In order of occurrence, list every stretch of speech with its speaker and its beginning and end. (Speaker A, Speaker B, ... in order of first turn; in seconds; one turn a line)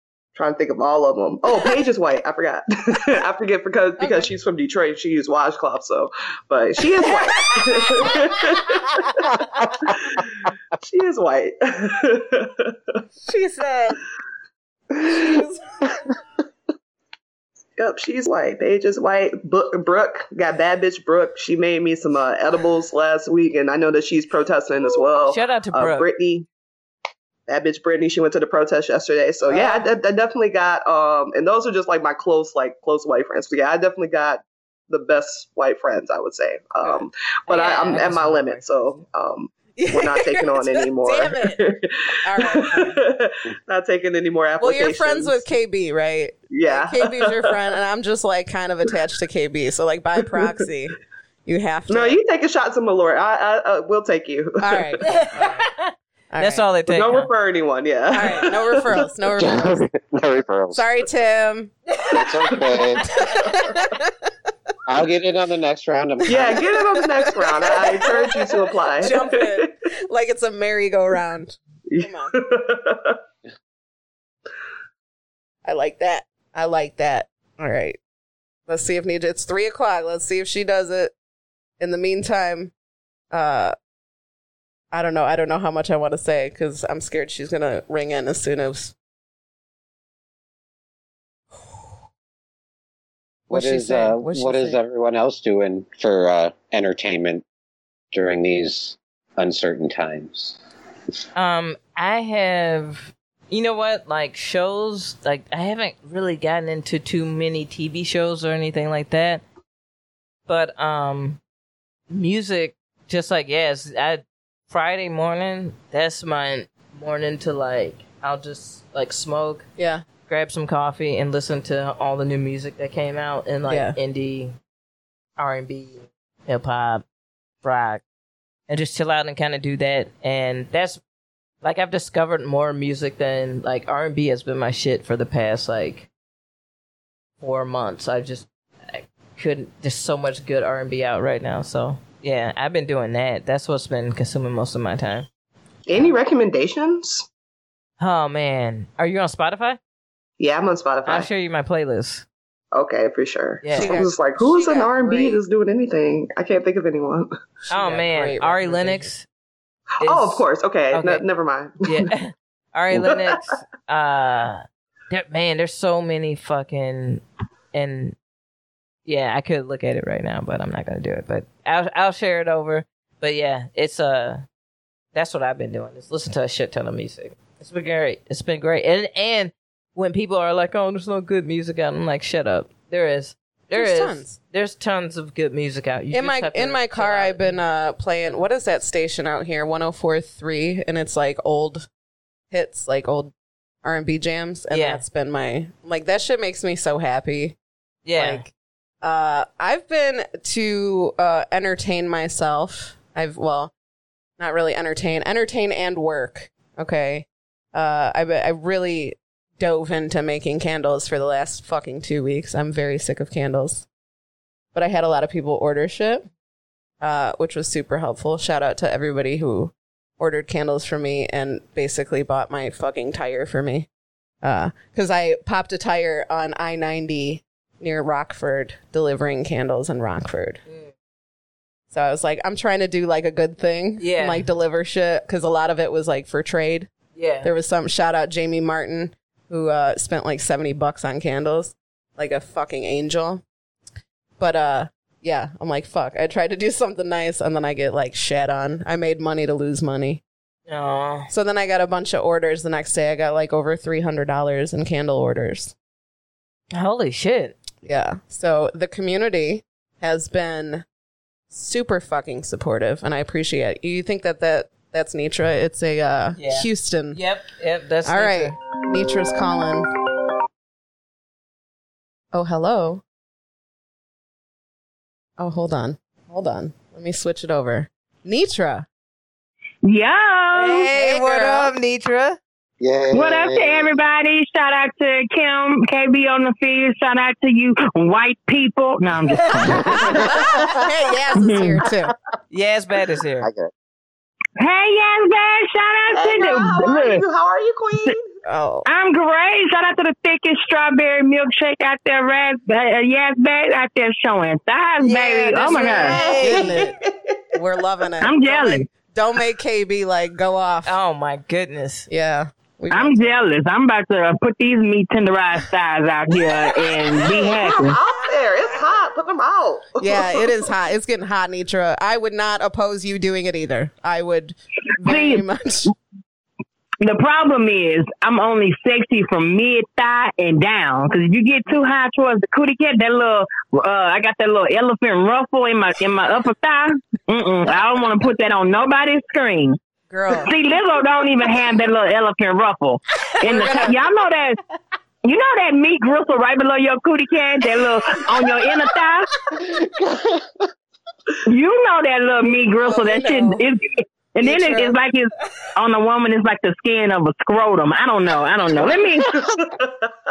Speaker A: 0.3-10.2
Speaker B: 4.0-4.3
Speaker A: 10.8-13.0
Speaker B: 13.2-14.0
Speaker B: 14.9-15.9
Speaker A: 17.8-26.4
Speaker C: 25.2-26.1
Speaker A: 27.5-45.4
Speaker B: 29.5-29.8
Speaker B: 36.8-38.0
Speaker C: 37.5-39.0
Speaker B: 39.8-41.6
Speaker B: 42.2-43.0
Speaker B: 44.6-52.2
Speaker A: 46.5-47.6
Speaker A: 50.2-50.6
Speaker A: 51.9-55.2
Speaker B: 54.6-55.5
Speaker C: 55.0-57.3
Speaker B: 56.3-56.6
Speaker A: 56.9-59.1
Speaker B: 58.1-59.9
Speaker D: 59.4-60.8
Speaker B: 60.7-61.8
Speaker D: 62.1-63.2
Speaker B: 63.0-64.1
Speaker D: 64.9-66.6
Speaker A: 66.3-69.7
Speaker B: 66.3-72.3
Speaker A: 71.9-73.2
Speaker B: 75.6-78.0
Speaker B: 78.7-81.1
Speaker B: 81.8-82.7
Speaker B: 83.3-83.7
Speaker B: 84.9-88.9
Speaker B: 93.5-94.8
Speaker D: 93.5-97.4
Speaker D: 98.1-100.6
Speaker C: 101.3-109.4
Speaker C: 110.5-111.4
Speaker C: 112.1-119.7
Speaker B: 119.8-120.0
Speaker C: 120.3-124.5
Speaker B: 123.7-124.0
Speaker C: 125.4-127.0
Speaker C: 127.6-128.0
Speaker C: 128.7-131.0
Speaker C: 131.6-136.1
Speaker C: 137.4-145.3
Speaker A: 145.8-147.3
Speaker C: 148.0-149.8
Speaker A: 150.4-151.3
Speaker C: 151.1-152.2
Speaker A: 152.7-157.3
Speaker C: 153.6-154.0
Speaker B: 153.7-155.4
Speaker C: 157.7-159.2
Speaker B: 157.7-159.1
Speaker C: 160.0-161.2
Speaker A: 160.0-162.1
Speaker C: 161.8-167.2
Speaker A: 162.9-163.3
Speaker C: 167.7-168.2
Speaker C: 169.1-174.4
Speaker C: 175.1-187.6
Speaker B: 183.7-184.4
Speaker B: 186.1-191.9
Speaker B: 192.5-193.3
Speaker B: 193.8-197.6
Speaker C: 194.7-195.0
Speaker C: 198.0-198.4
Speaker B: 198.2-198.5
Speaker B: 199.0-203.7
Speaker B: 204.4-213.8
Speaker B: 214.7-216.2
Speaker B: 217.0-223.9
Speaker B: 224.4-230.6
Speaker C: 230.7-230.9
Speaker B: 231.9-236.9
Speaker C: 234.0-234.4
Speaker C: 237.2-237.5
Speaker B: 237.4-243.4
Speaker B: 244.4-250.2
Speaker C: 250.7-251.3
Speaker B: 251.3-255.7
Speaker C: 256.7-257.5
Speaker B: 257.8-260.8
Speaker B: 261.5-267.2
Speaker C: 266.4-268.6
Speaker B: 268.0-269.9
Speaker B: 272.3-273.0
Speaker B: 275.4-278.9
Speaker E: 279.8-280.9
Speaker C: 280.5-282.4
Speaker B: 280.9-281.7
Speaker D: 282.8-283.9
Speaker E: 283.1-290.0
Speaker C: 289.3-290.4
Speaker D: 289.9-290.8
Speaker B: 290.0-292.1
Speaker E: 291.3-291.8
Speaker C: 292.5-293.5
Speaker D: 293.4-293.7
Speaker E: 294.6-297.2
Speaker A: 296.1-298.3
Speaker B: 298.4-298.9
Speaker E: 298.8-306.1
Speaker C: 305.0-306.9
Speaker B: 305.6-307.0
Speaker A: 306.1-307.4
Speaker B: 307.5-310.9
Speaker E: 308.2-308.9
Speaker C: 310.8-312.1
Speaker B: 312.1-313.3
Speaker E: 312.9-318.0
Speaker A: 317.1-320.5
Speaker B: 320.0-325.9
Speaker E: 325.0-325.4
Speaker E: 327.0-339.8
Speaker B: 340.1-340.5
Speaker E: 340.4-344.6
Speaker B: 343.4-344.0
Speaker E: 345.2-349.3
Speaker D: 349.5-350.5
Speaker E: 351.4-359.4
Speaker B: 352.8-353.6
Speaker B: 354.4-354.9
Speaker A: 359.3-360.1